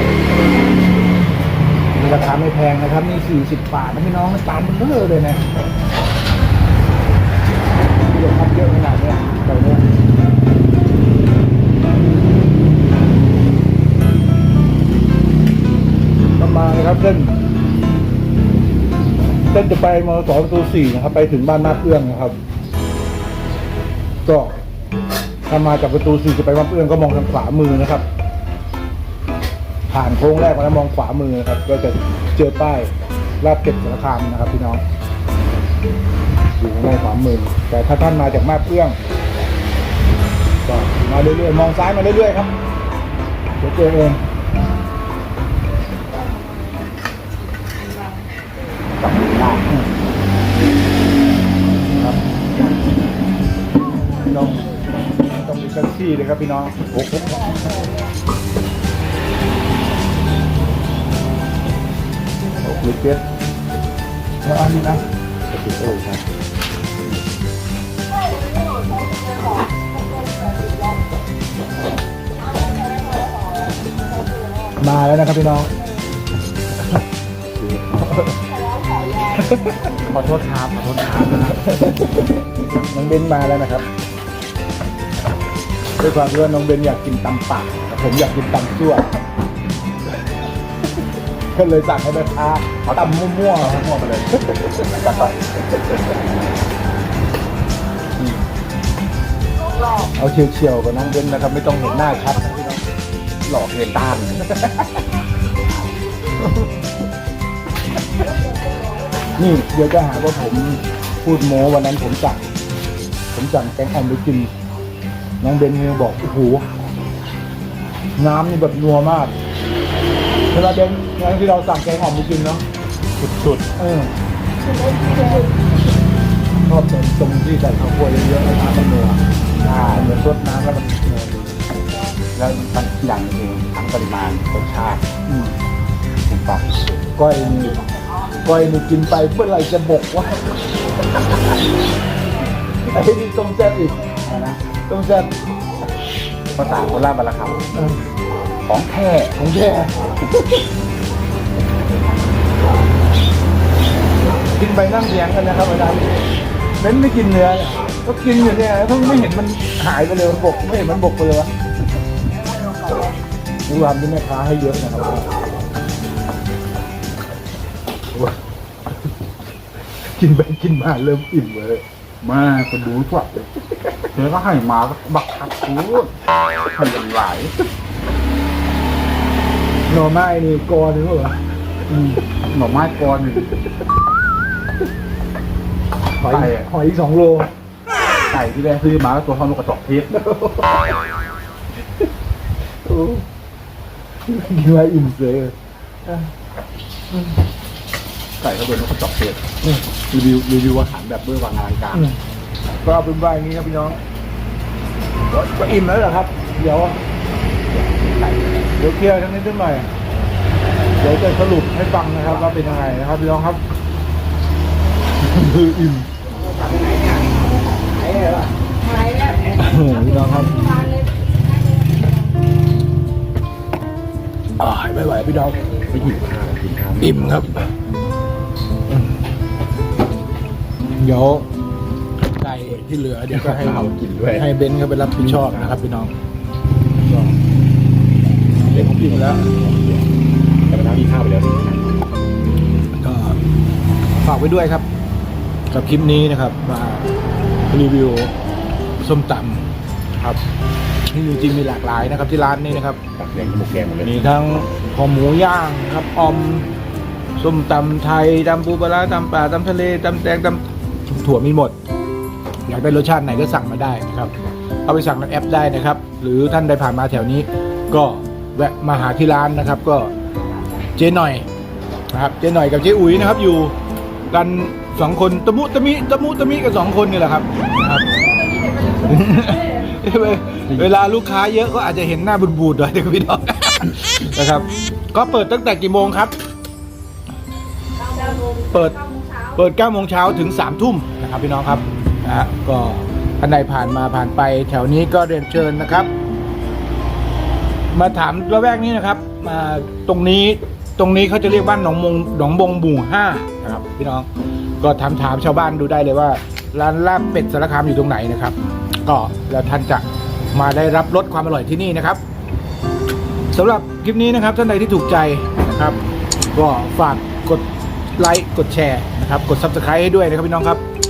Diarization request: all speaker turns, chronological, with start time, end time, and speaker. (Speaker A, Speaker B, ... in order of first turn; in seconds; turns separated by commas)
Speaker A: 1.9-5.5, Speaker A: 7.9-9.8, Speaker A: 16.4-17.3, Speaker A: 19.5-22.4, Speaker A: 24.2-24.6, Speaker A: 25.5-28.0, Speaker A: 29.9-34.8, Speaker A: 36.6-39.0, Speaker A: 40.6-42.5, Speaker A: 43.6-44.2, Speaker B: 49.0-49.7, Speaker A: 54.2-57.0, Speaker B: 57.0-57.4, Speaker A: 62.6-63.2, Speaker A: 64.4-65.0, Speaker B: 65.5-66.2, Speaker A: 74.7-75.7, Speaker A: 77.9-78.4, Speaker A: 79.3-79.9, Speaker B: 80.0-81.7, Speaker A: 81.5-83.9, Speaker A: 86.0-89.1, Speaker A: 91.5-93.9, Speaker B: 92.8-95.3, Speaker A: 94.5-95.3, Speaker A: 100.0-102.8, Speaker B: 103.4-104.5, Speaker A: 104.5-105.0, Speaker A: 109.3-112.4, Speaker A: 113.3-114.5, Speaker A: 115.4-116.7, Speaker A: 118.2-119.3, Speaker A: 120.5-122.6, Speaker B: 123.2-123.7, Speaker A: 123.7-124.1, Speaker C: 124.8-125.2, Speaker A: 125.1-125.5, Speaker A: 126.5-131.5, Speaker B: 132.3-135.1, Speaker A: 135.3-135.5, Speaker B: 136.3-136.8, Speaker A: 137.2-137.8, Speaker A: 138.4-140.5, Speaker A: 142.8-144.1, Speaker B: 144.2-144.6, Speaker A: 144.9-145.3, Speaker B: 146.5-147.6, Speaker A: 147.7-148.0, Speaker B: 148.6-149.3, Speaker A: 149.3-150.6, Speaker A: 154.5-156.2, Speaker A: 156.8-161.5, Speaker A: 163.7-165.3, Speaker A: 170.1-171.8, Speaker B: 172.2-173.5, Speaker B: 174.1-177.6, Speaker A: 179.9-181.4, Speaker A: 181.9-182.1, Speaker B: 182.1-183.5, Speaker A: 186.1-187.5, Speaker B: 186.3-186.7, Speaker B: 188.3-190.2, Speaker A: 190.2-190.8, Speaker A: 192.8-193.2, Speaker A: 194.3-195.5, Speaker A: 196.1-196.3, Speaker B: 198.4-199.4, Speaker B: 200.0-202.1, Speaker A: 201.9-202.2, Speaker A: 202.8-204.0, Speaker A: 205.3-207.0, Speaker B: 207.7-208.7, Speaker A: 208.8-209.9, Speaker A: 211.0-213.6, Speaker A: 215.2-216.1, Speaker C: 216.4-217.8, Speaker A: 218.0-218.5, Speaker C: 218.6-222.2, Speaker A: 219.6-220.5, Speaker A: 224.6-226.1, Speaker B: 225.9-227.4, Speaker A: 227.0-227.7, Speaker A: 231.0-231.5, Speaker A: 232.3-236.1, Speaker B: 233.3-234.4, Speaker B: 235.2-235.8, Speaker B: 237.1-237.3, Speaker A: 238.6-239.5, Speaker B: 238.7-240.2, Speaker B: 240.7-242.1, Speaker A: 243.0-243.4, Speaker A: 244.2-244.8, Speaker A: 245.7-247.1, Speaker A: 247.7-248.3, Speaker A: 249.0-250.4, Speaker A: 251.1-253.0, Speaker B: 253.0-254.3, Speaker A: 254.0-256.7, Speaker A: 257.4-261.8, Speaker A: 262.6-264.3, Speaker A: 264.8-270.1, Speaker A: 270.8-271.5, Speaker A: 272.1-273.7, Speaker A: 274.3-278.1, Speaker C: 278.1-280.1, Speaker A: 279.0-286.3, Speaker C: 288.0-289.5, Speaker A: 288.7-296.1, Speaker A: 297.9-304.3, Speaker A: 304.8-312.2, Speaker A: 313.5-316.0, Speaker A: 316.5-317.6, Speaker A: 318.2-320.8